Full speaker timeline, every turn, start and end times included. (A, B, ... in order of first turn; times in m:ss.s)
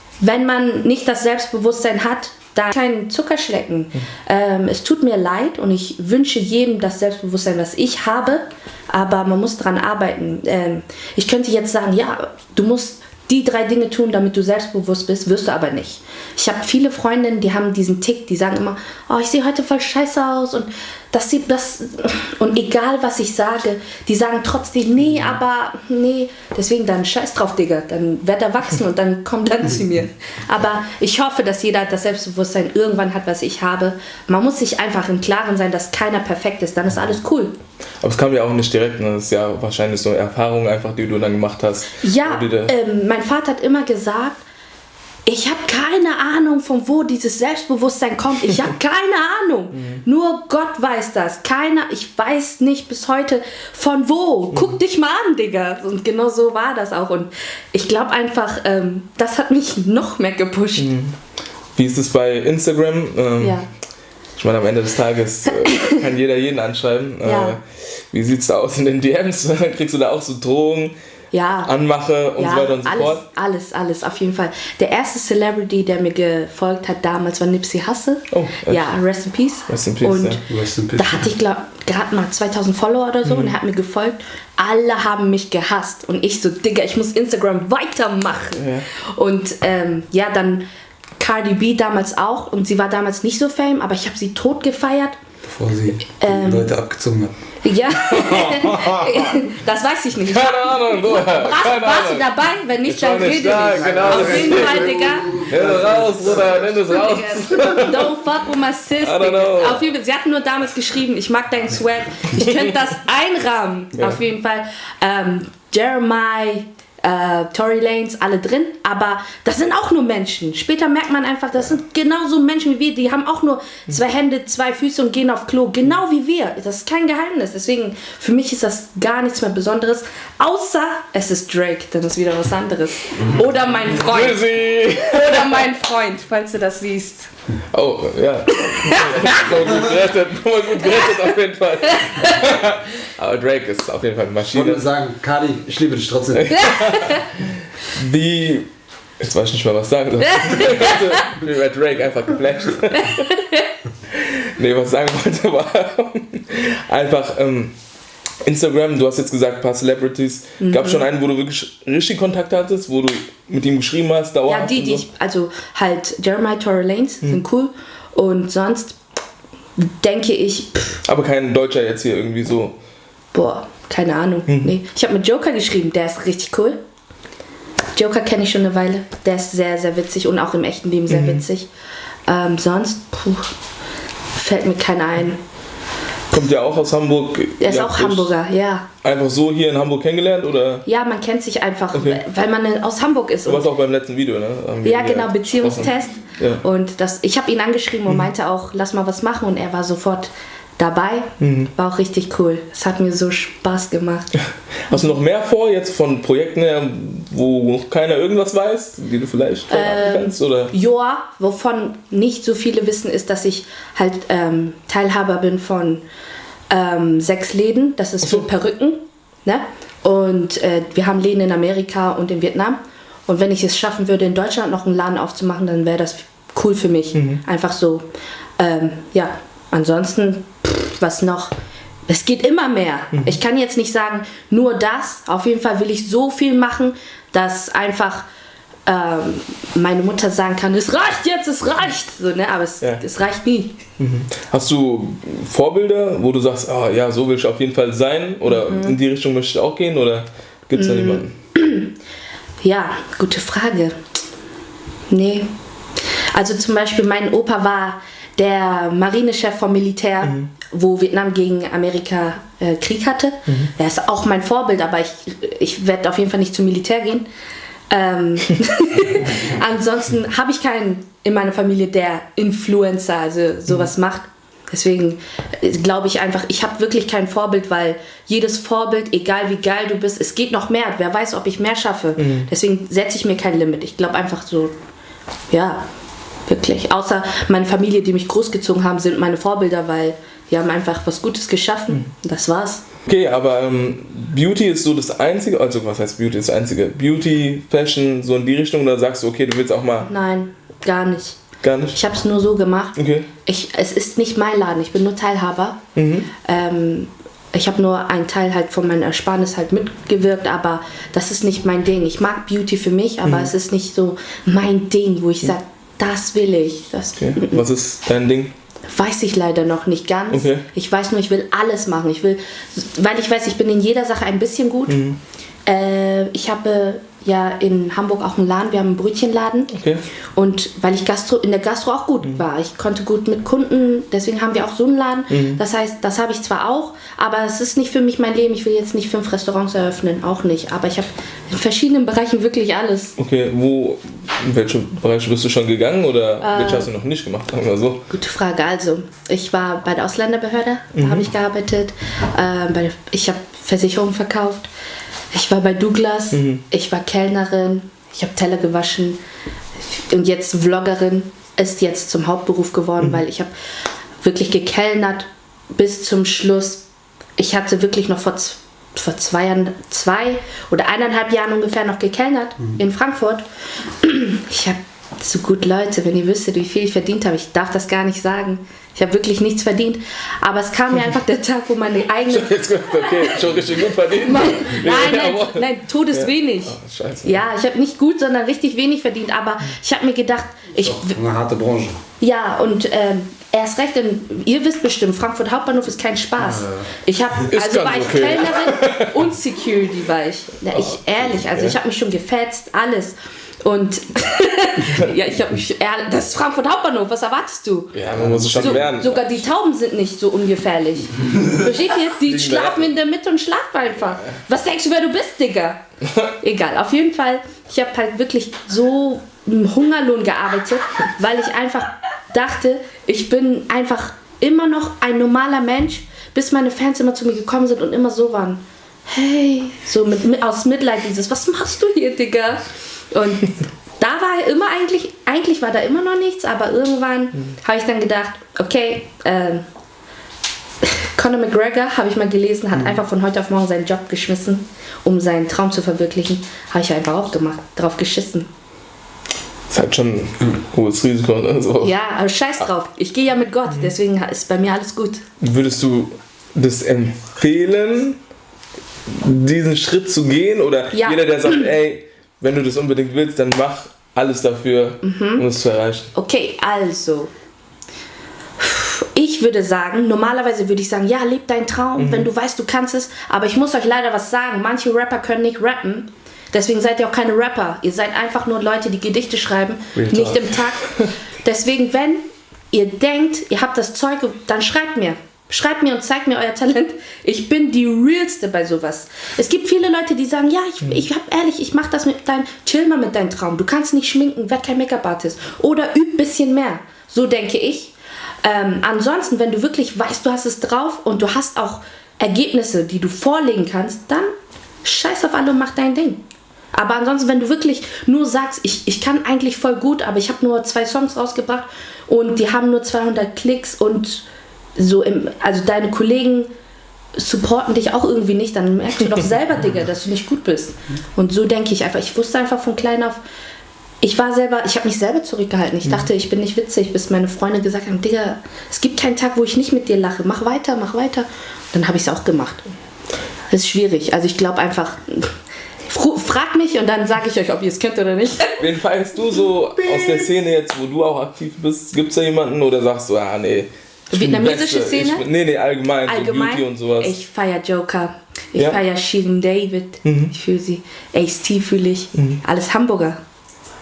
0:00.2-0:37.6 A
0:38.0-0:42.7 B
0:42.0-0:44.4 A
0:45.2-1:00.9 A
0:49.7-0:50.0 B
1:00.8-1:01.2 B
1:01.8-1:03.6 B
1:03.4-1:03.7 A
1:04.4-1:10.9 B
1:05.7-1:06.0 A
1:07.2-1:07.6 A
1:11.3-1:11.7 A
1:11.6-1:13.2 B
1:12.4-1:20.4 A
1:18.3-1:18.9 B
1:19.7-1:20.4 B
1:20.5-1:21.3 C
1:21.0-1:30.7 A
1:23.2-1:23.5 B
1:28.6-1:28.9 B
1:31.2-1:35.2 A
1:35.4-1:37.4 C
1:36.2-1:36.7 A
1:37.6-1:45.5 A
1:38.2-1:39.1 B
1:40.2-1:48.2 B
1:43.7-1:46.6 C
1:46.2-2:17.3 A
1:49.0-1:49.9 B
2:13.9-2:15.7 B
2:17.7-2:24.8 B
2:18.5-2:19.5 A
2:20.8-2:21.2 A
2:21.8-2:22.5 A
2:24.5-2:26.6 C
2:26.4-2:28.7 B
2:26.6-2:27.2 A
2:29.2-2:33.3 B
2:30.4-2:31.2 A
2:32.9-2:33.6 A
2:34.1-2:37.7 B
2:38.4-2:45.0 B
2:40.6-2:41.1 A
2:44.5-2:49.0 A
2:49.8-2:51.0 A
2:51.0-2:52.8 B
2:53.3-2:56.8 A
2:58.0-3:01.7 A
3:01.1-3:01.4 B
3:02.3-3:03.5 A
3:04.4-3:05.4 A
3:06.3-3:08.3 B
3:07.6-3:08.9 A
3:09.0-3:10.8 B
3:10.9-3:13.6 A
3:11.9-3:12.2 B
3:13.5-3:16.6 B
3:14.8-3:24.3 A
3:21.4-3:21.7 B
3:24.9-3:30.7 B
3:29.7-3:36.0 A
3:36.7-3:48.1 A
3:47.2-3:47.4 B
3:48.6-3:51.5 A
3:52.1-3:58.2 A
3:58.9-4:03.8 A
4:04.0-4:11.4 B
4:08.5-4:09.0 A
4:10.8-4:11.9 A
4:12.6-4:14.0 A
4:15.1-4:15.5 A
4:16.1-4:27.2 A
4:27.9-4:44.7 A
4:42.2-4:42.5 B
4:45.5-4:45.9 A
4:46.5-4:52.8 A
4:53.1-5:00.1 B
5:00.0-5:01.4 A
5:01.6-5:02.0 B
5:01.9-5:05.8 A
5:03.0-5:03.3 B
5:06.0-5:06.3 B
5:06.4-5:17.6 A
5:13.2-5:13.5 B
5:17.2-5:18.5 B
5:18.9-5:25.0 A
5:20.3-5:20.6 B
5:24.9-5:25.2 B
5:25.7-5:29.7 A
5:29.7-5:30.0 B
5:30.4-5:43.2 A
5:35.3-5:35.6 B
5:43.2-5:48.1 B
5:46.4-5:46.9 A
5:48.1-5:54.7 A
5:51.0-5:51.3 B
5:55.3-5:59.2 A
5:56.3-5:56.6 B
5:59.9-6:03.5 A
6:04.2-6:06.8 A
6:07.4-6:13.4 A
6:14.0-6:23.4 A
6:22.3-6:27.4 B
6:24.2-6:31.2 A
6:30.8-6:32.0 C
6:32.2-6:48.0 A
6:36.4-6:36.9 C
6:37.5-6:39.2 B
6:40.7-6:41.8 B
6:47.9-6:49.4 B
6:48.1-6:48.9 C
6:48.6-6:55.8 A
6:52.2-6:52.9 B
6:56.4-7:19.6 A
7:20.8-7:28.5 A
7:29.7-7:31.9 B
7:31.8-7:35.2 A
7:35.4-7:38.2 B
7:39.1-7:46.1 B
7:40.9-7:41.7 A
7:45.0-7:45.5 A
7:46.1-7:47.3 A
7:48.6-8:17.9 A
7:52.0-7:52.3 B
8:00.0-8:01.1 B
8:18.4-8:24.3 A
8:24.8-8:34.2 A
8:34.8-8:36.5 A
8:37.2-8:43.2 A
8:44.0-8:52.7 A
8:53.5-8:55.3 A
8:55.9-8:58.6 A
8:58.6-9:07.1 B
9:04.1-9:05.2 A
9:06.1-9:13.2 A
9:10.0-9:10.3 B
9:12.1-9:12.4 B